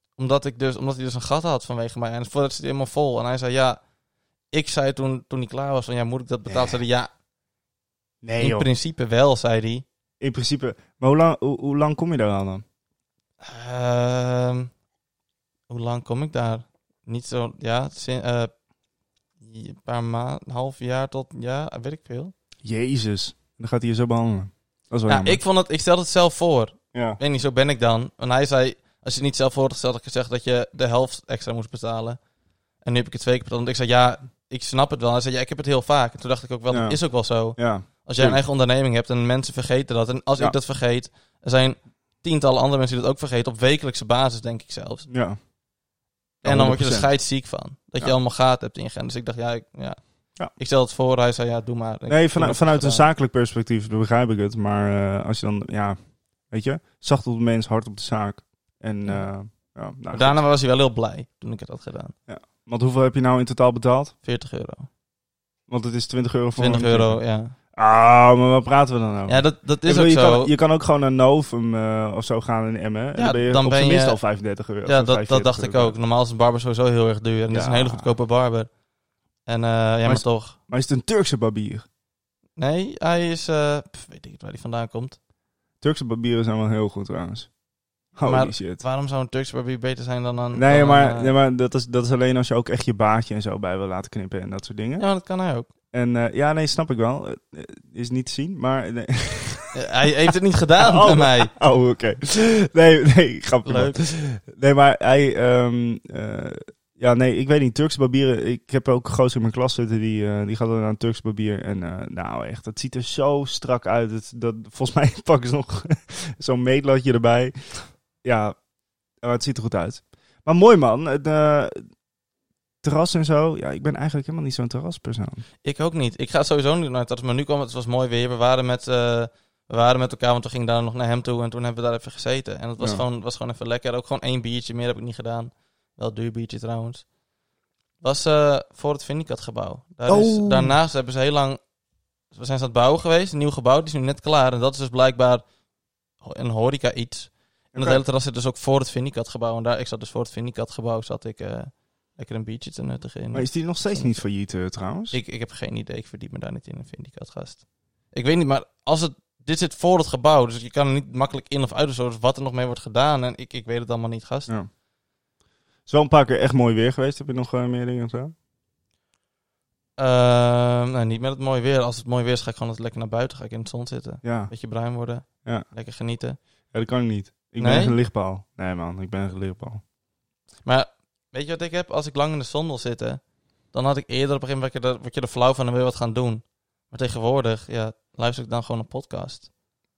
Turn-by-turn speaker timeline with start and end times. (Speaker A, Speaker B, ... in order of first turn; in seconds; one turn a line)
Speaker A: 0.2-3.8
Speaker A: 4.5-7.1
Speaker B: 8.2-8.7
Speaker A: 8.4-9.8
Speaker B: 10.2-12.6
Speaker A: 13.4-14.7
Speaker A: 15.7-18.5
Speaker A: 19.4-22.3
Speaker B: 22.6-25.4
Speaker A: 25.1-32.2
Speaker B: 26.9-27.2
Speaker A: 32.8-45.1
Speaker B: 36.7-37.0
Speaker B: 37.6-38.4
Speaker B: 45.1-45.4
Speaker B: 46.4-47.1
Speaker A: 46.4-50.0
Speaker A: 50.5-53.0
Speaker B: 52.1-56.0
Speaker B: 56.5-60.4
Speaker A: 60.1-62.1
Speaker B: 62.3-64.1
Speaker A: 64.2-64.9
Speaker B: 65.7-67.2
Speaker A: 66.6-67.5
Speaker B: 67.8-75.9
Speaker A: 69.3-70.5
Speaker A: 73.2-74.2
Speaker A: 74.8-78.7
Speaker B: 77.5-78.1
Speaker A: 79.5-80.5
Speaker B: 80.0-81.8
Speaker A: 82.6-85.2
Speaker B: 85.8-87.5
Speaker B: 88.2-88.8
Speaker A: 88.2-91.3
Speaker B: 90.5-95.0
Speaker A: 95.0-95.7
Speaker B: 95.9-99.7
Speaker A: 99.7-101.5
Speaker B: 100.8-117.5
Speaker A: 103.7-104.0
Speaker B: 118.2-118.5
Speaker B: 119.2-121.8
Speaker B: 122.8-125.4
Speaker A: 125.6-137.0
Speaker A: 138.0-141.6
Speaker B: 140.1-140.8
Speaker A: 142.3-145.4
Speaker A: 146.2-154.1
Speaker B: 147.7-148.0
Speaker B: 153.3-155.2
Speaker A: 155.1-157.6
Speaker A: 158.1-164.5
Speaker B: 165.9-168.3
Speaker A: 170.0-176.4
Speaker B: 174.2-174.5
Speaker B: 176.7-179.8
Speaker A: 177.6-177.9
Speaker A: 180.6-183.2
Speaker A: 183.7-189.5